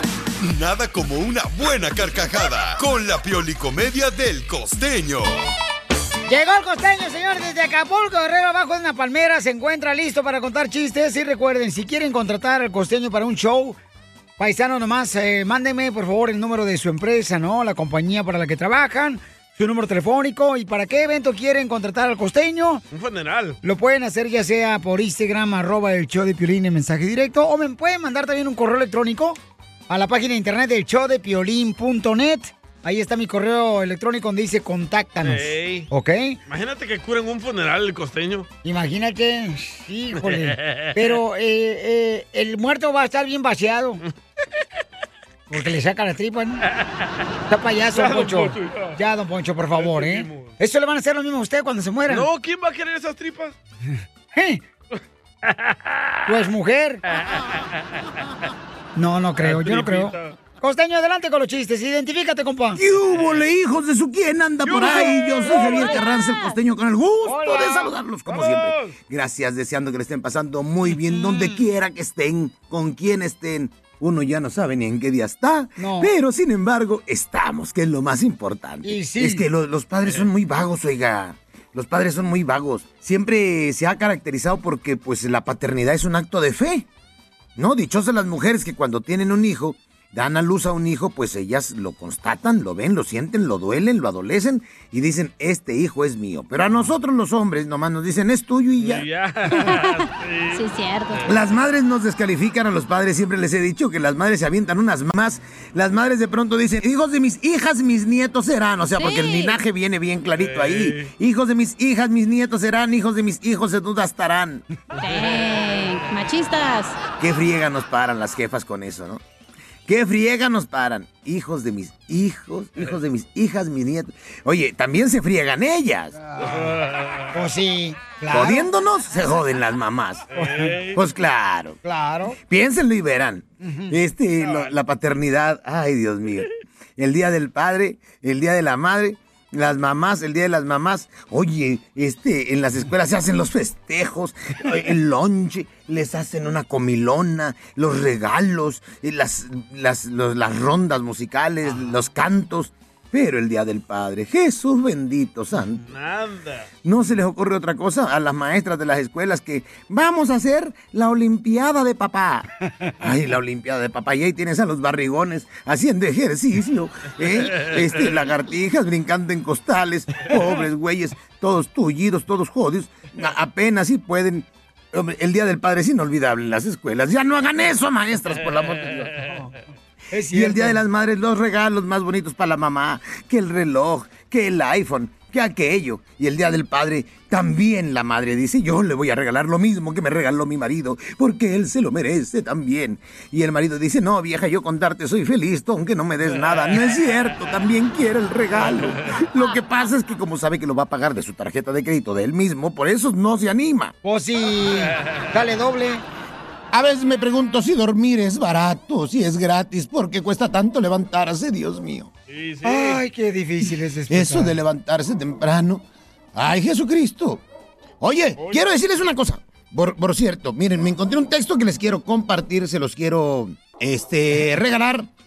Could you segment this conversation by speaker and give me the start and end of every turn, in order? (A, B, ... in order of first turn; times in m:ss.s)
0:00.4-0:05.4 A
0:06.3-0:13.8 B
0:14.4-0:22.8 B
0:22.9-0:23.6 C
0:23.6-0:29.4 B
0:29.9-0:36.4 B
0:35.2-0:35.9 C
0:36.5-0:38.5 C
0:38.6-0:44.0 B
0:40.2-0:41.2 C
0:45.5-0:46.6 B
0:47.5-0:52.3 B
0:47.9-0:49.0 C
0:49.8-0:50.5 C
0:52.1-0:53.6 C
0:54.3-0:54.6 B
0:55.5-0:55.8 C
0:56.3-0:57.0 B
0:59.0-1:02.8 B
0:59.4-1:00.4 C
1:02.8-1:26.9 D
1:03.1-1:03.4 C
1:04.7-1:05.9 C
1:04.8-1:06.6 E
1:07.3-1:07.9 B
1:08.3-1:09.0 C
1:11.0-1:11.6 B
1:15.8-1:16.1 B
1:18.8-1:19.5 B
1:27.6-1:39.1 D
1:38.8-1:41.4 C
1:39.5-1:41.2 E
1:41.3-1:54.6 D
1:49.0-1:49.6 E
1:50.3-1:51.1 C
1:55.0-1:55.4 C
1:55.0-1:57.0 E
1:57.2-1:59.2 D
1:59.9-2:06.1 D
2:06.3-2:06.7 B
2:06.4-2:07.3 C
2:07.3-2:08.7 B
2:08.3-2:10.3 D
2:10.3-2:11.0 C
2:10.3-2:10.7 B
2:10.9-2:11.8 D
2:11.8-2:12.4 B
2:12.4-2:35.8 D
2:13.6-2:14.0 B
2:14.4-2:14.7 C
2:35.9-2:36.7 C
2:36.8-2:42.5 D
2:43.0-2:59.2 D
2:47.5-2:48.0 C
3:00.1-3:00.8 B
3:00.3-3:23.9 D
3:24.0-3:26.0 B
3:26.7-3:32.1 D
3:32.3-3:33.0 C
3:32.6-3:34.6 B
3:34.1-3:35.8 D
3:36.4-3:37.4 D
3:38.0-3:45.1 D
3:38.4-3:38.7 C